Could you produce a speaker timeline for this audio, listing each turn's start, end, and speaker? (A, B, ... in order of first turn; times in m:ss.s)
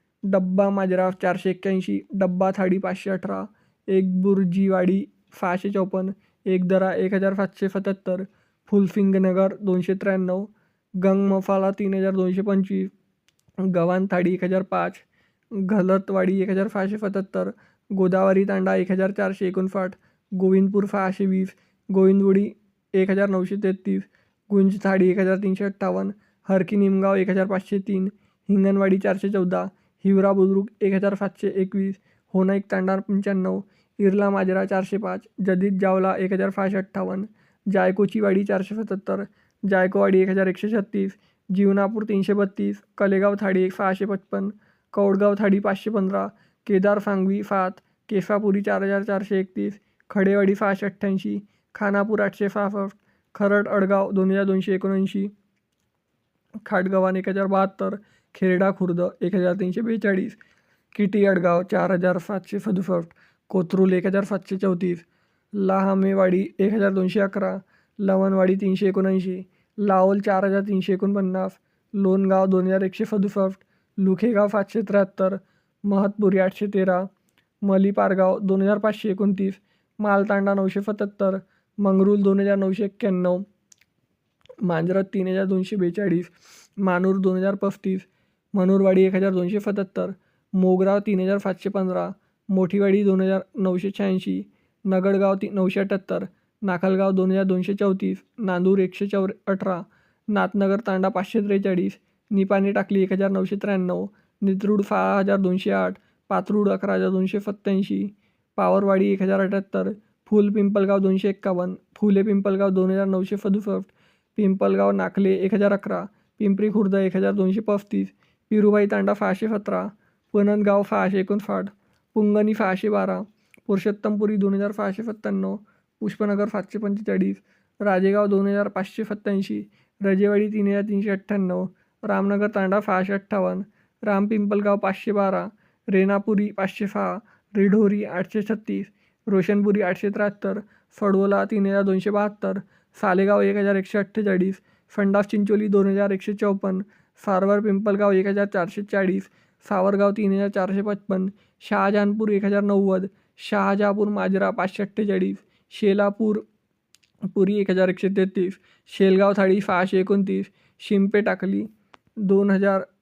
0:00.3-0:12.9 A
0:13.6-0:55.3 A
0:56.6-1:00.4 A
1:00.9-1:17.1 A
1:17.6-1:23.4 A
1:24.6-2:36.4 A
2:37.3-2:42.9 A